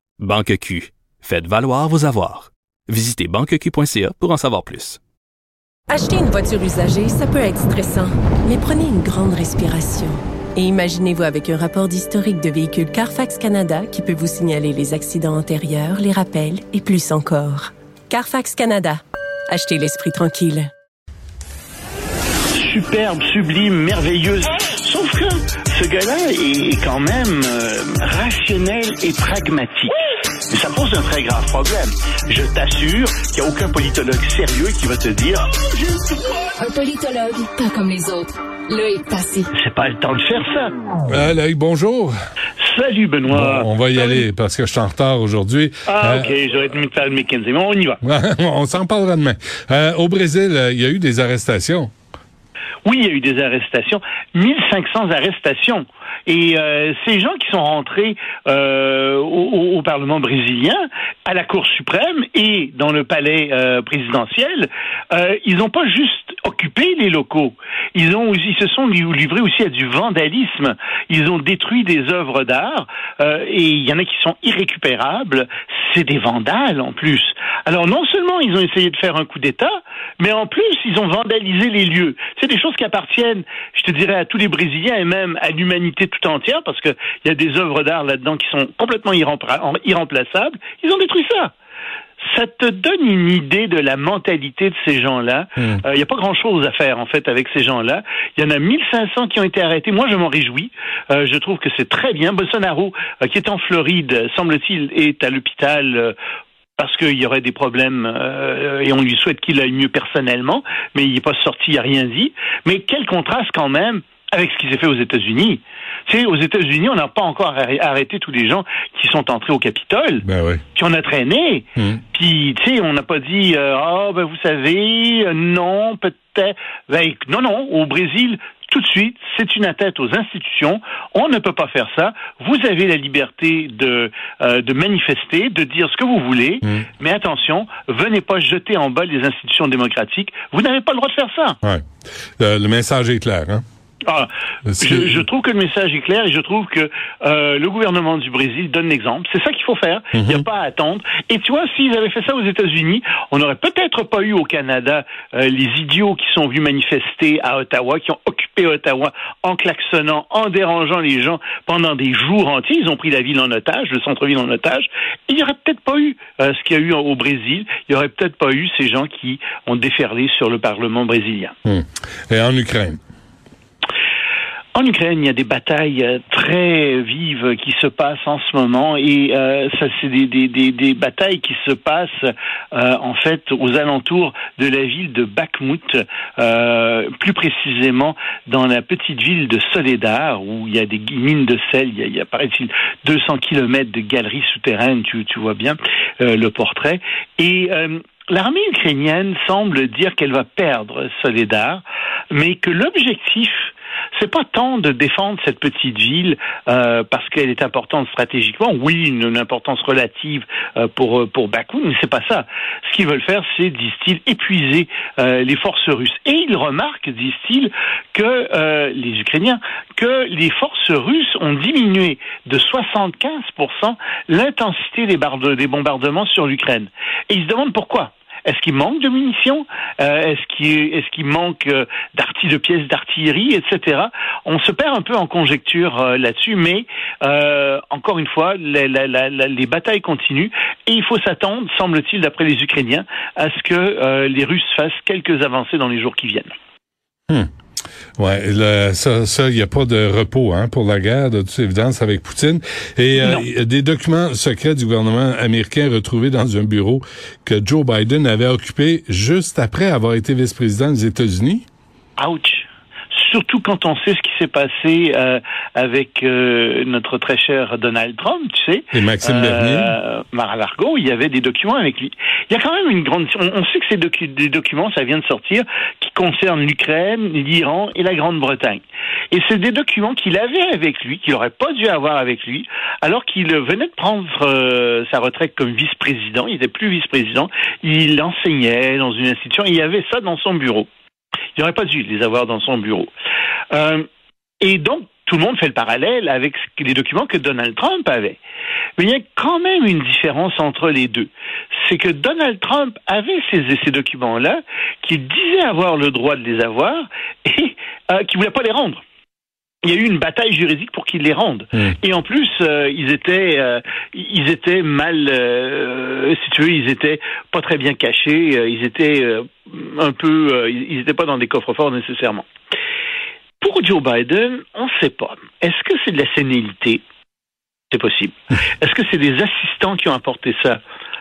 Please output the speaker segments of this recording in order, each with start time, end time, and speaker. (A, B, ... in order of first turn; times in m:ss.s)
0:00.2-0:05.0 A
0:05.9-0:20.7 B
0:22.5-0:30.0 C
0:30.5-0:35.5 C
0:36.1-0:39.5 D
0:39.5-0:40.7 C
0:41.1-0:42.1 E
0:42.6-0:44.2 C
0:43.3-0:46.3 E
0:45.9-0:48.0 C
0:48.0-0:51.9 E
0:52.8-1:31.5 C
1:32.3-1:46.2 C
1:46.8-2:21.6 C
2:00.2-2:00.6 E
2:22.4-2:23.6 E
2:24.1-2:51.6 C
2:24.7-2:25.2 E
2:30.2-2:30.4 E
2:51.7-2:53.0 E
2:54.7-4:06.6 C
4:08.2-4:21.7 E
4:13.2-4:13.5 C
4:22.2-4:50.9 C
4:28.9-4:30.0 E
4:51.6-4:53.1 C
4:53.7-4:54.1 C
4:54.6-4:58.4 C
4:59.0-5:09.0 C
5:09.8-5:22.4 C
5:23.6-5:27.0 C
5:27.9-5:30.8 C